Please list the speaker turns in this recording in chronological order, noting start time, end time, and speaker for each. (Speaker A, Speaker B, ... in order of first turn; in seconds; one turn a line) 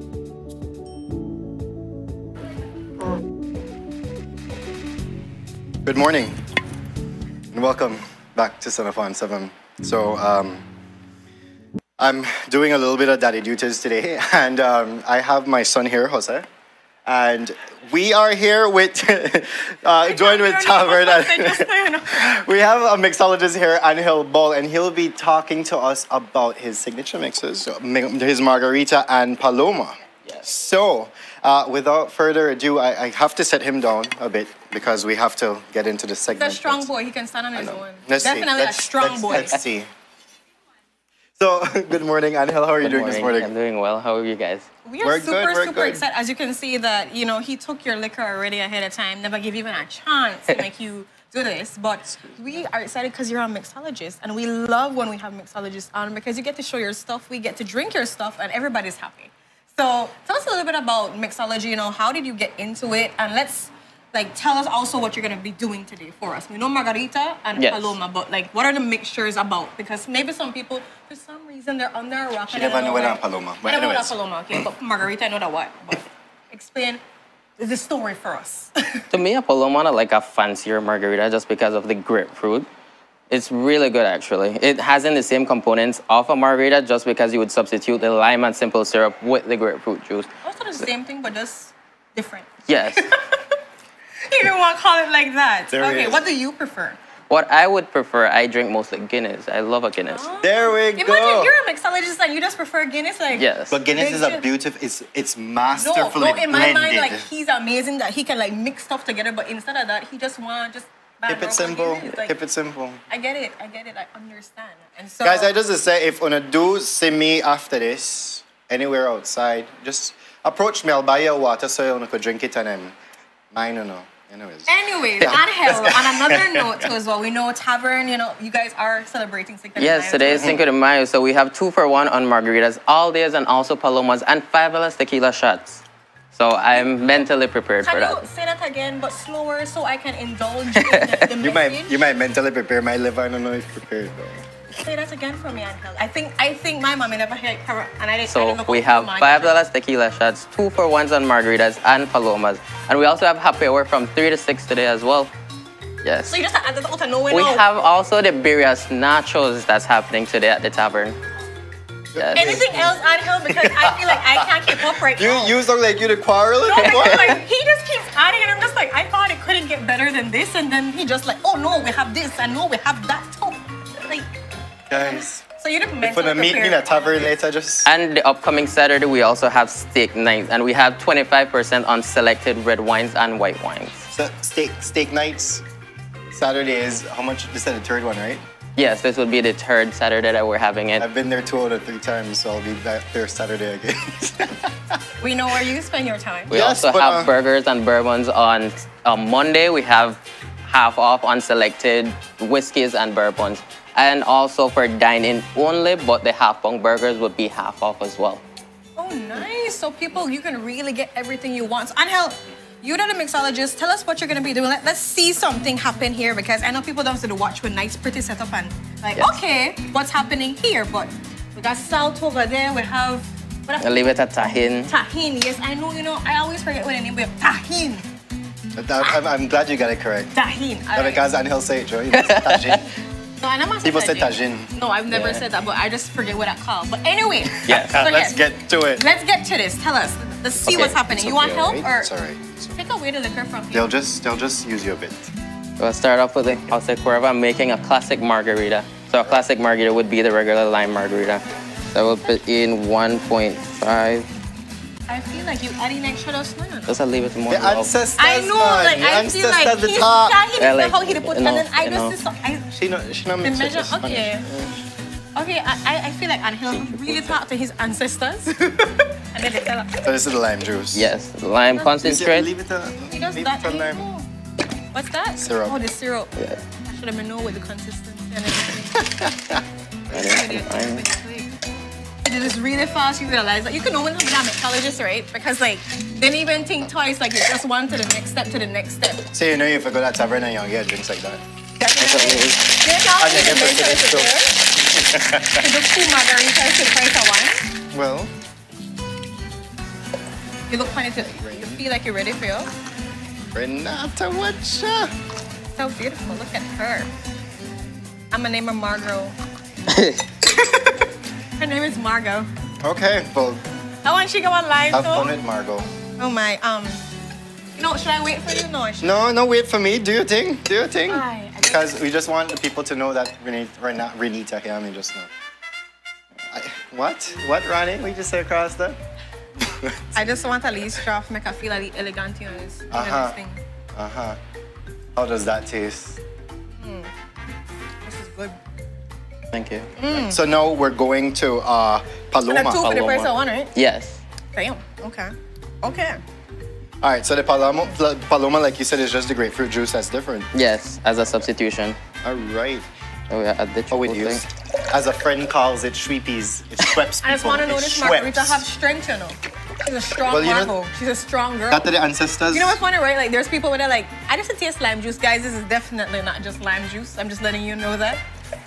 Speaker A: 5.8-6.4
Speaker A: 7.5-10.6
Speaker A: 12.0-16.5
Speaker A: 17.1-36.9
Speaker B: 20.0-22.3
Speaker B: 36.3-39.6
Speaker A: 37.5-39.9
Speaker A: 41.4-43.5
Speaker C: 42.8-44.7
Speaker B: 44.9-77.0
Speaker A: 45.0-46.0
Speaker C: 67.6-68.0
Speaker A: 72.5-74.7
Speaker B: 77.6-79.0
Speaker C: 79.1-82.7
Speaker C: 83.3-90.3
Speaker B: 90.4-93.4
Speaker C: 92.7-93.1
Speaker B: 94.3-97.0
Speaker A: 95.7-96.2
Speaker C: 97.3-100.3
Speaker B: 100.0-104.4
Speaker A: 100.4-101.5
Speaker C: 103.3-103.8
Speaker A: 103.7-107.3
Speaker B: 105.8-112.3
Speaker A: 111.3-113.0
Speaker B: 113.1-115.5
Speaker A: 115.2-122.9
Speaker A: 123.5-126.9
Speaker B: 124.7-130.6
Speaker C: 129.8-135.8
Speaker A: 130.3-130.6
Speaker C: 136.3-138.3
Speaker B: 137.8-142.0
Speaker C: 140.8-141.2
Speaker A: 141.4-144.4
Speaker B: 144.8-149.6
Speaker C: 148.3-155.3
Speaker C: 156.0-156.4
Speaker B: 156.3-157.7
Speaker C: 157.3-161.2
Speaker A: 162.2-162.9
Speaker C: 162.2-162.6
Speaker B: 162.3-165.6
Speaker A: 163.6-167.4
Speaker B: 166.7-174.3
Speaker A: 174.9-175.4
Speaker B: 174.9-177.3
Speaker A: 176.0-177.9
Speaker C: 177.8-184.0
Speaker A: 184.1-185.6
Speaker A: 186.3-188.4
Speaker C: 188.8-191.1
Speaker A: 191.0-195.0
Speaker B: 195.2-196.5
Speaker C: 196.5-208.4
Speaker A: 196.5-197.3
Speaker B: 209.0-224.1
Speaker C: 223.8-224.9
Speaker B: 224.9-228.0
Speaker A: 228.8-230.3
Speaker B: 230.3-231.3
Speaker A: 230.9-232.9
Speaker C: 232.1-232.8
Speaker B: 233.4-242.1
Speaker A: 233.8-234.7
Speaker C: 235.1-235.4
Speaker C: 237.7-238.0
Speaker A: 237.7-239.1
Speaker C: 240.7-241.0
Speaker A: 240.9-242.8
Speaker B: 242.8-243.9
Speaker A: 243.7-245.3
Speaker C: 245.8-254.3
Speaker B: 255.1-257.0
Speaker C: 256.9-257.9
Speaker A: 257.5-260.4
Speaker B: 258.2-262.7
Speaker C: 260.6-262.2
Speaker A: 262.7-264.8
Speaker B: 263.4-264.5
Speaker B: 265.4-270.1
Speaker A: 270.1-271.1
Speaker C: 270.9-272.5
Speaker A: 272.0-274.1
Speaker B: 273.1-274.3
Speaker B: 274.9-276.3
Speaker A: 275.4-275.8
Speaker C: 276.4-276.6
Speaker B: 276.9-279.2
Speaker A: 279.0-279.6
Speaker B: 280.1-281.5
Speaker C: 280.1-281.0
Speaker B: 282.2-289.2
Speaker A: 289.3-291.4
Speaker B: 291.8-294.6
Speaker C: 292.0-292.6
Speaker A: 293.2-295.7
Speaker B: 295.6-297.6
Speaker A: 297.9-298.3
Speaker B: 300.7-302.7
Speaker A: 301.2-301.8
Speaker A: 303.5-305.1
Speaker B: 305.8-307.1
Speaker B: 308.3-309.4
Speaker C: 309.9-310.2
Speaker B: 310.4-311.1
Speaker B: 311.6-312.5
Speaker A: 312.8-313.6
Speaker B: 314.0-315.4
Speaker A: 314.9-315.9
Speaker B: 316.2-317.0
Speaker B: 317.8-319.2
Speaker A: 319.0-325.3
Speaker B: 321.1-322.0
Speaker A: 326.5-329.0
Speaker A: 329.6-330.4
Speaker B: 330.1-333.6
Speaker A: 332.9-333.4
Speaker A: 333.9-334.4
Speaker A: 335.1-336.2
Speaker B: 336.8-337.1
Speaker B: 338.0-338.6
Speaker C: 339.5-339.9
Speaker B: 340.0-340.4
Speaker A: 340.1-342.9
Speaker B: 342.5-343.7
Speaker C: 342.8-344.2
Speaker B: 344.5-346.2
Speaker A: 347.0-350.5
Speaker C: 350.5-352.0
Speaker A: 352.2-352.9
Speaker C: 353.3-354.4
Speaker A: 353.9-358.6
Speaker B: 357.2-361.9
Speaker A: 360.3-360.7
Speaker A: 361.7-362.8
Speaker B: 362.5-368.2